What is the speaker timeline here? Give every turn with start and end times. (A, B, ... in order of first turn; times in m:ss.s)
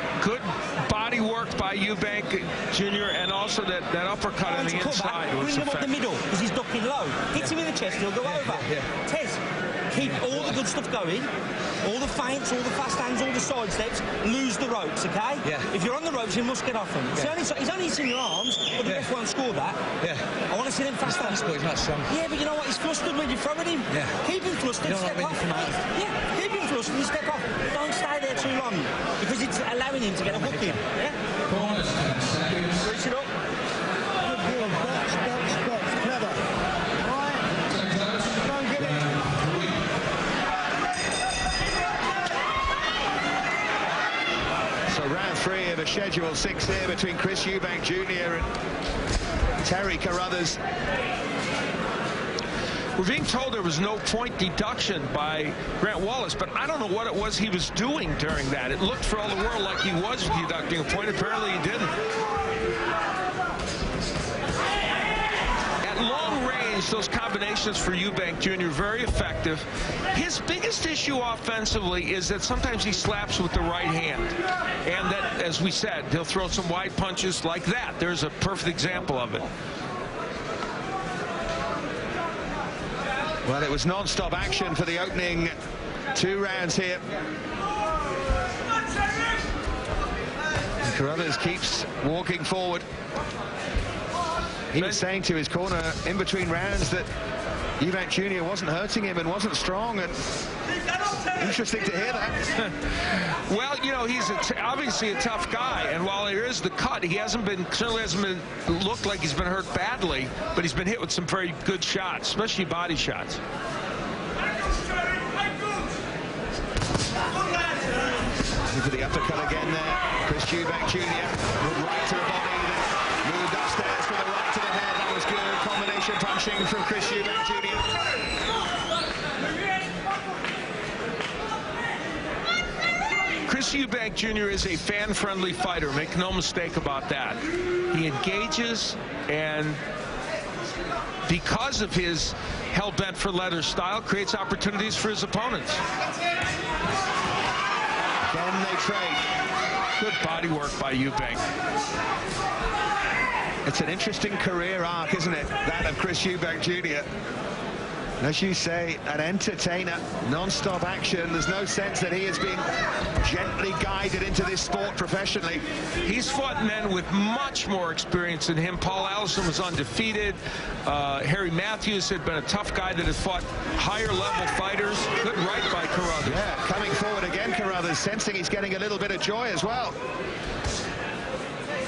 0:00.2-0:06.0 A
0:04.4-0:09.4 B
0:08.2-0:08.9 C
0:09.9-0:11.3 B
0:10.0-0:10.6 C
0:11.8-0:19.9 B
0:15.4-0:15.7 C
0:18.8-0:19.1 C
0:20.4-0:21.6 B
0:21.0-0:22.1 C
0:22.1-0:31.2 B
0:23.9-0:24.2 C
0:24.8-0:25.8 C
0:30.3-0:30.8 C
0:31.7-0:32.6 A
0:32.7-0:33.3 B
0:34.2-0:36.4 D
0:37.0-0:37.5 D
0:38.4-0:39.2 D
0:44.9-0:48.5 E
0:49.6-0:50.6 E
0:53.0-1:01.9 A
1:05.8-1:19.5 A
1:23.4-1:25.5 E
1:26.1-1:27.0 E
1:30.8-1:32.8 E
1:34.7-1:37.1 E
1:34.8-1:35.0 A
1:37.8-1:40.2 E
1:41.3-1:42.4 E
1:42.6-1:53.4 A
1:58.7-2:07.9 E
2:13.5-2:17.4 A
2:17.9-2:19.8 A
2:21.2-2:25.8 A
2:28.3-2:29.2 E
2:30.0-2:31.4 A
2:33.6-2:37.0 E
2:38.2-2:42.6 E
2:43.2-2:45.6 E
2:46.0-2:56.4 A
2:56.2-3:00.0 E